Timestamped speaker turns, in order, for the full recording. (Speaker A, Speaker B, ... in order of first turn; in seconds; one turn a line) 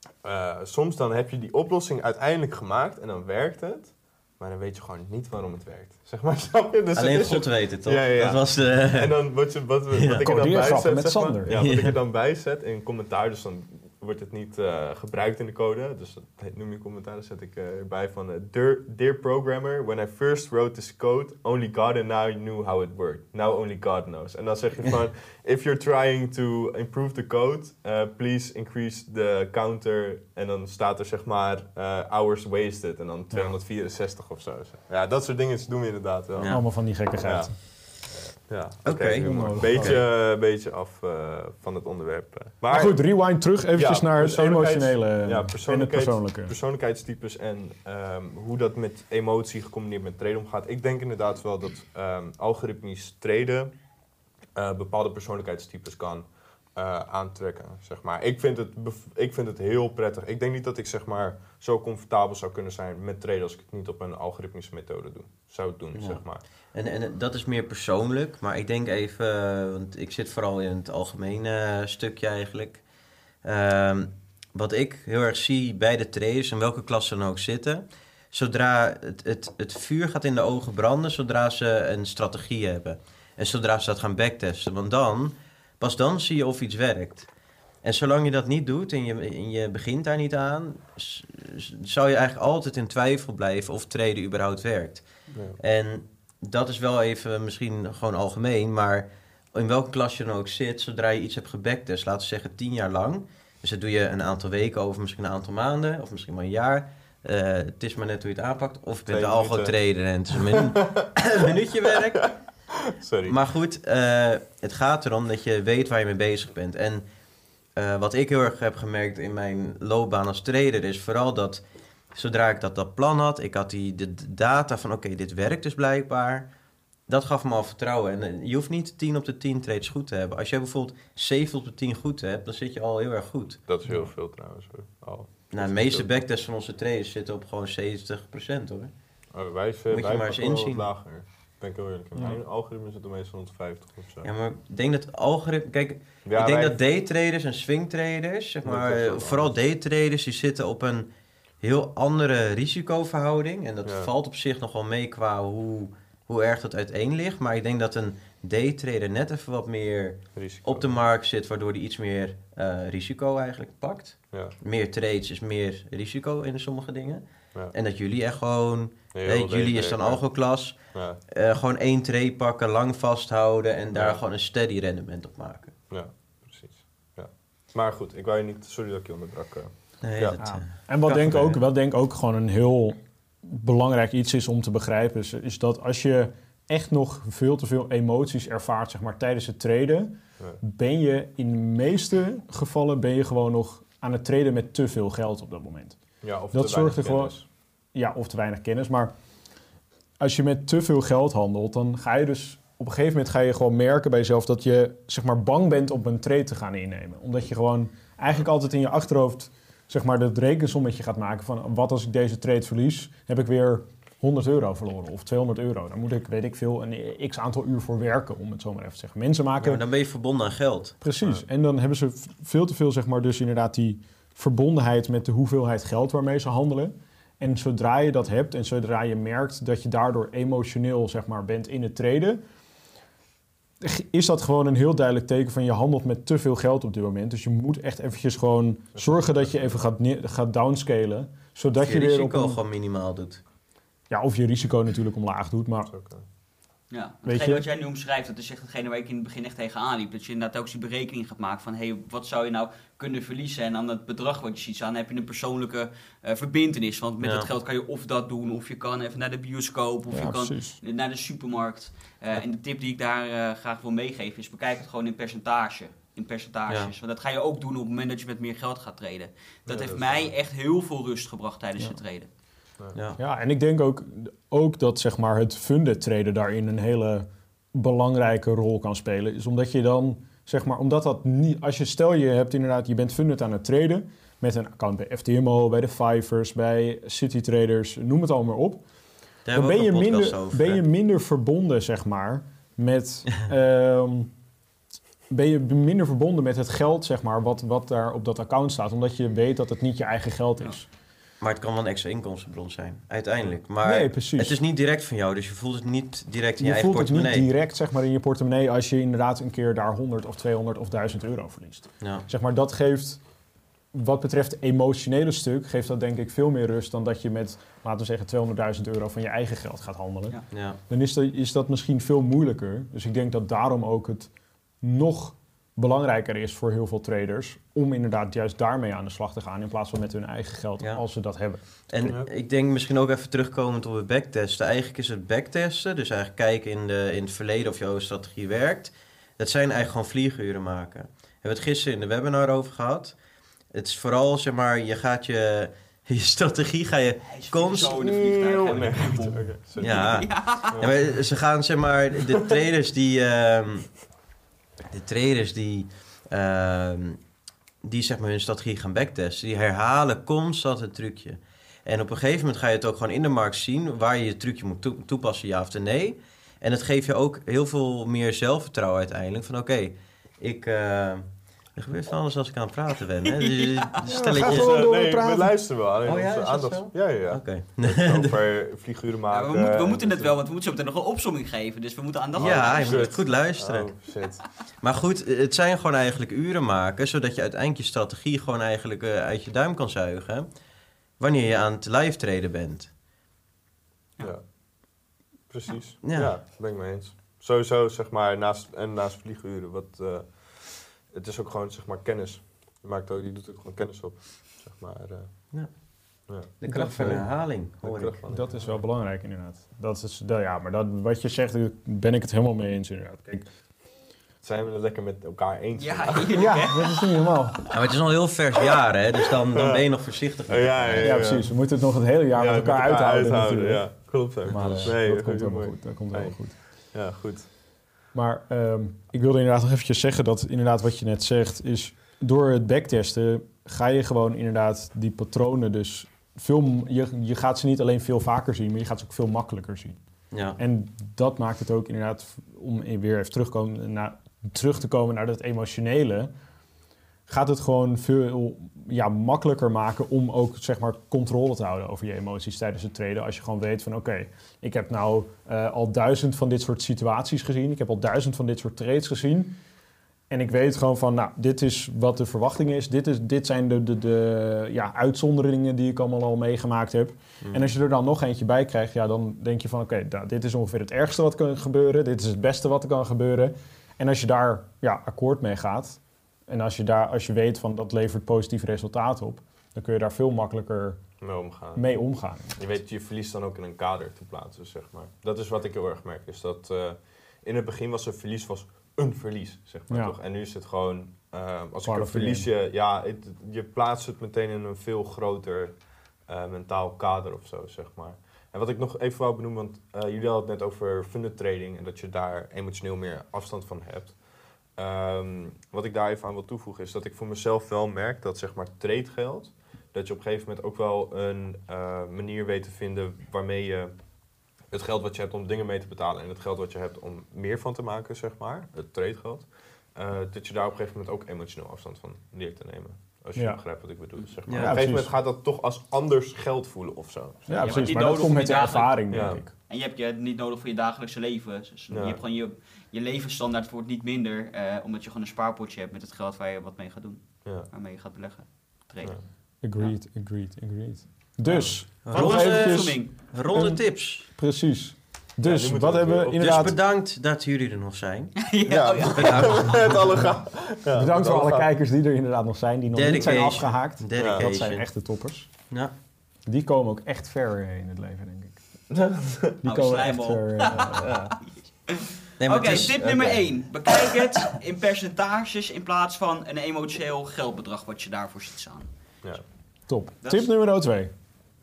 Speaker A: 0.2-36.6
Speaker B: 7.0-9.3
Speaker B: 9.9-10.2
Speaker C: 10.2-11.5
Speaker B: 11.5-12.0
Speaker B: 36.3-36.6
Speaker C: 36.5-37.6
Speaker A: 37.2-43.0
Speaker B: 38.9-40.0
Speaker C: 39.2-40.0
Speaker C: 42.7-46.5
Speaker A: 43.8-53.7
Speaker A: 54.6-66.4
Speaker B: 66.0-66.2
Speaker B: 66.7-72.8
Speaker B: 73.4-87.3
Speaker B: 87.8-95.1
Speaker B: 95.6-112.3
Speaker A: 109.1-109.8
Speaker A: 110.3-111.1
Speaker A: 111.9-112.3
Speaker A: 112.8-113.4
Speaker B: 113.2-117.0
Speaker B: 117.8-121.6
Speaker B: 122.2-126.5
Speaker B: 127.1-133.6
Speaker A: 133.7-136.1
Speaker B: 135.5-138.9
Speaker A: 139.3-144.3
Speaker B: 139.9-140.9
Speaker C: 142.2-142.4
Speaker B: 144.2-151.1
Speaker A: 146.2-146.8
Speaker A: 148.6-149.6
Speaker B: 151.6-175.7
Speaker A: 153.8-154.1
Speaker A: 160.3-161.0
Speaker A: 169.1-170.2
Speaker A: 170.9-171.2
Speaker A: 173.9-174.2
Speaker A: 175.9-180.4
Speaker B: 180.0-181.6
Speaker C: 180.4-196.0
Speaker A: 196.2-197.4
Speaker C: 196.5-197.4
Speaker C: 197.9-199.1
Speaker C: 200.2-219.8
Speaker B: 219.6-221.0
Speaker C: 221.0-232.4
Speaker C: 233.8-242.6
Speaker A: 238.9-239.8
Speaker B: 241.8-243.4
Speaker C: 244.1-245.9
Speaker A: 245.9-246.2
Speaker D: 246.9-272.3
Speaker C: 247.2-247.6
Speaker B: 257.2-257.5
Speaker C: 260.1-260.8
Speaker A: 269.6-270.3
Speaker B: 272.9-273.2
Speaker C: 273.2-288.8
Speaker B: 289.5-290.8
Speaker C: 289.5-294.3
Speaker C: 295.3-300.9
Speaker B: 301.4-307.5
Speaker C: 303.8-304.6
Speaker C: 306.6-313.2
Speaker B: 312.0-312.3
Speaker C: 313.9-320.4
Speaker B: 320.5-320.8
Speaker C: 320.9-331.6
Speaker B: 331.9-343.1
Speaker B: 343.7-348.0
Speaker D: 347.3-350.8
Speaker A: 347.9-350.9
Speaker B: 349.8-354.0
Speaker B: 354.9-357.2
Speaker B: 357.8-374.8
Speaker D: 373.5-373.9
Speaker C: 374.1-375.5
Speaker A: 374.4-380.4
Speaker B: 376.0-378.4
Speaker D: 379.3-383.1
Speaker A: 382.4-384.4
Speaker B: 382.4-383.9
Speaker B: 384.8-390.5
Speaker B: 391.2-392.9
Speaker A: 394.2-394.4
Speaker A: 395.5-405.3
Speaker B: 396.0-396.4
Speaker B: 406.6-408.2
Speaker C: 406.6-407.3
Speaker A: 407.8-408.8
Speaker C: 408.3-413.5
Speaker A: 414.4-416.5
Speaker D: 415.8-417.8
Speaker C: 416.4-417.6
Speaker B: 417.7-421.2
Speaker A: 419.2-419.9
Speaker A: 420.5-421.5
Speaker C: 421.0-426.6
Speaker A: 422.4-427.5
Speaker B: 424.6-424.9
Speaker C: 428.1-440.0
Speaker B: 440.3-440.6
Speaker C: 440.6-446.3
Speaker C: 447.3-459.6
Speaker C: 460.3-481.0
Speaker B: 467.4-467.7
Speaker A: 481.2-481.9
Speaker C: 481.8-482.6
Speaker A: 482.6-495.8
Speaker C: 489.9-490.1
Speaker C: 491.9-492.5
Speaker A: 496.3-504.2
Speaker A: 504.8-513.9
Speaker A: 514.7-527.9
Speaker B: 524.5-524.8
Speaker C: 524.6-525.1
Speaker C: 527.5-529.5
Speaker D: 527.6-539.2
Speaker A: 529.1-529.4
Speaker A: 531.9-532.2
Speaker C: 539.6-546.8
Speaker A: 541.5-541.8
Speaker B: 542.0-544.2
Speaker D: 542.1-543.1
Speaker A: 545.4-546.8
Speaker B: 546.4-548.4
Speaker D: 548.4-550.0
Speaker A: 548.7-551.7
Speaker B: 549.1-549.9
Speaker C: 550.9-555.5
Speaker B: 552.9-554.9
Speaker A: 554.1-554.5
Speaker C: 556.5-558.6
Speaker A: 558.9-559.6
Speaker C: 559.6-561.4
Speaker D: 559.6-568.9
Speaker B: 562.4-563.4
Speaker C: 569.9-571.1